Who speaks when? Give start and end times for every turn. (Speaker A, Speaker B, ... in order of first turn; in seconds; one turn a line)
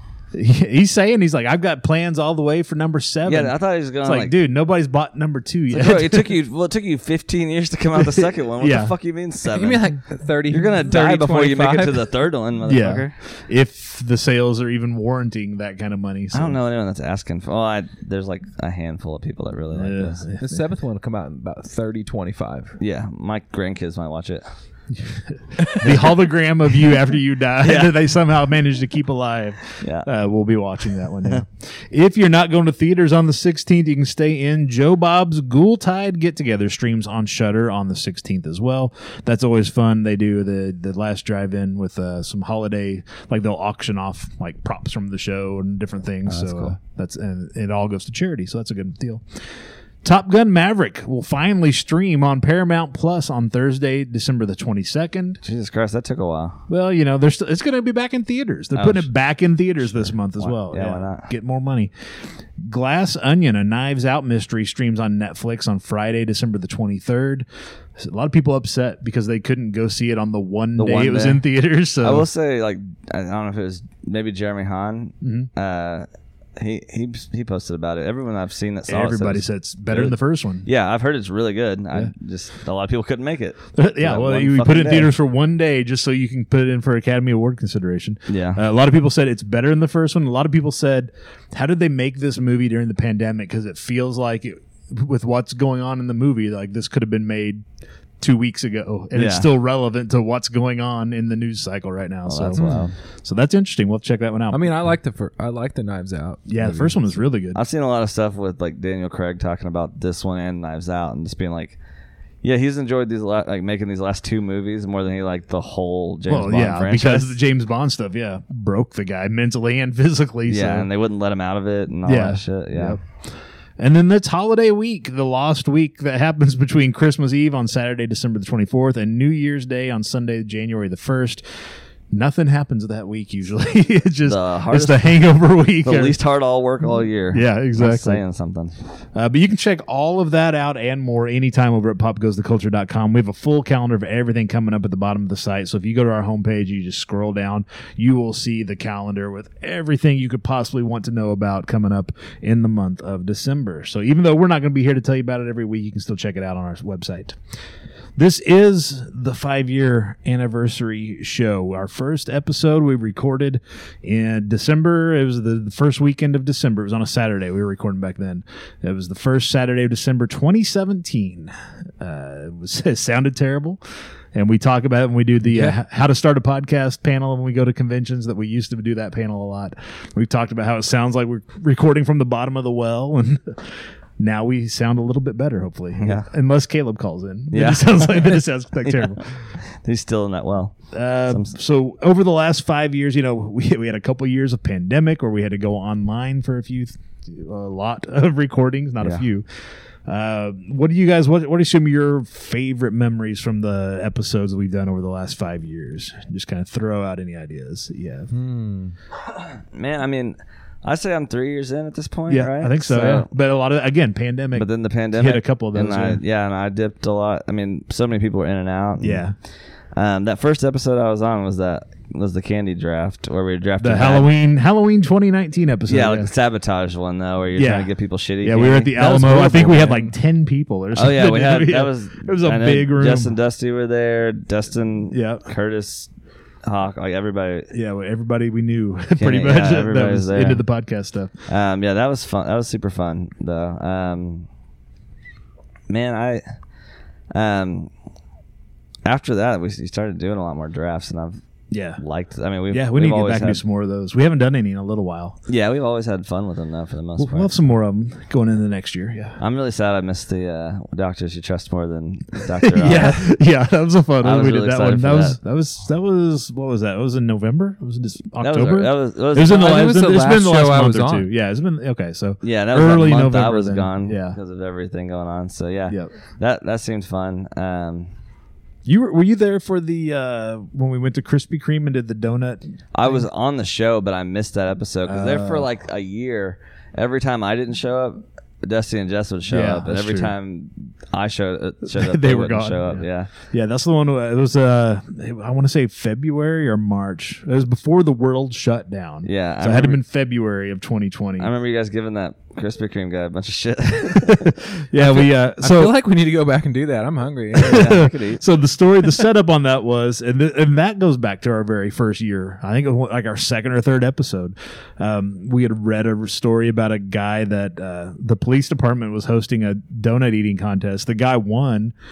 Speaker A: 0.3-6.4
Speaker B: 3.3-4.3
Speaker B: 5.7-9.9
Speaker A: 8.0-8.9
Speaker C: 9.5-12.1
Speaker B: 10.5-13.2
Speaker A: 12.7-16.6
Speaker B: 16.3-20.2
Speaker A: 19.7-20.6
Speaker C: 20.4-22.8
Speaker B: 22.8-24.5
Speaker A: 25.1-49.2
Speaker C: 25.6-25.9
Speaker B: 27.6-28.0
Speaker B: 29.8-30.1
Speaker B: 46.3-46.8
Speaker A: 50.0-55.4
Speaker B: 55.4-56.6
Speaker A: 56.7-61.9
Speaker B: 58.8-59.1
Speaker B: 59.9-61.3
Speaker A: 62.6-67.5
Speaker A: 68.0-72.3
Speaker B: 70.8-71.5
Speaker B: 72.0-76.1
Speaker A: 75.2-75.5
Speaker B: 76.6-85.1
Speaker A: 78.9-80.7
Speaker A: 83.8-97.6
Speaker B: 88.3-88.6
Speaker A: 98.2-102.7
Speaker B: 99.1-99.5
Speaker B: 102.3-102.9
Speaker C: 102.6-102.9
Speaker A: 103.2-104.8
Speaker C: 104.5-107.2
Speaker A: 106.5-107.6
Speaker B: 107.5-111.8
Speaker B: 112.4-117.3
Speaker A: 116.3-120.9
Speaker B: 120.5-123.0
Speaker A: 122.1-123.0
Speaker A: 123.8-131.4
Speaker A: 132.1-136.2
Speaker B: 134.2-135.2
Speaker B: 135.8-138.7
Speaker A: 137.3-138.2
Speaker A: 139.2-157.4
Speaker A: 158.2-173.8
Speaker A: 174.3-189.3
Speaker C: 175.5-175.8
Speaker B: 186.0-186.3
Speaker B: 187.5-189.2
Speaker B: 189.7-190.8
Speaker A: 190.9-199.4
Speaker B: 191.3-191.5
Speaker A: 200.1-208.3
Speaker C: 208.3-208.9
Speaker B: 209.7-213.3
Speaker A: 212.3-216.2
Speaker B: 214.6-219.2
Speaker A: 219.0-219.4
Speaker B: 219.9-224.3
Speaker A: 223.8-226.3
Speaker B: 225.9-230.1
Speaker A: 227.6-233.3
Speaker B: 230.9-236.1
Speaker A: 235.1-235.5
Speaker B: 236.6-237.7
Speaker A: 237.7-241.3
Speaker B: 239.2-240.6
Speaker B: 241.5-244.5
Speaker B: 245.9-246.4
Speaker B: 247.3-247.9
Speaker B: 249.1-251.4
Speaker A: 251.7-252.0
Speaker B: 252.0-253.6
Speaker A: 252.7-255.4
Speaker B: 255.5-257.5
Speaker A: 257.2-259.4
Speaker B: 259.4-263.3
Speaker A: 262.6-274.4
Speaker C: 262.9-263.2
Speaker B: 264.2-265.4
Speaker B: 268.4-269.7
Speaker C: 269.4-271.3
Speaker B: 272.4-278.1
Speaker A: 278.9-283.2
Speaker B: 282.9-293.3
Speaker A: 285.1-285.7
Speaker A: 289.5-290.3
Speaker A: 291.9-301.5
Speaker B: 299.2-300.0
Speaker B: 301.4-304.6
Speaker A: 304.1-306.0
Speaker C: 305.0-308.1
Speaker B: 307.6-308.4
Speaker A: 307.6-321.9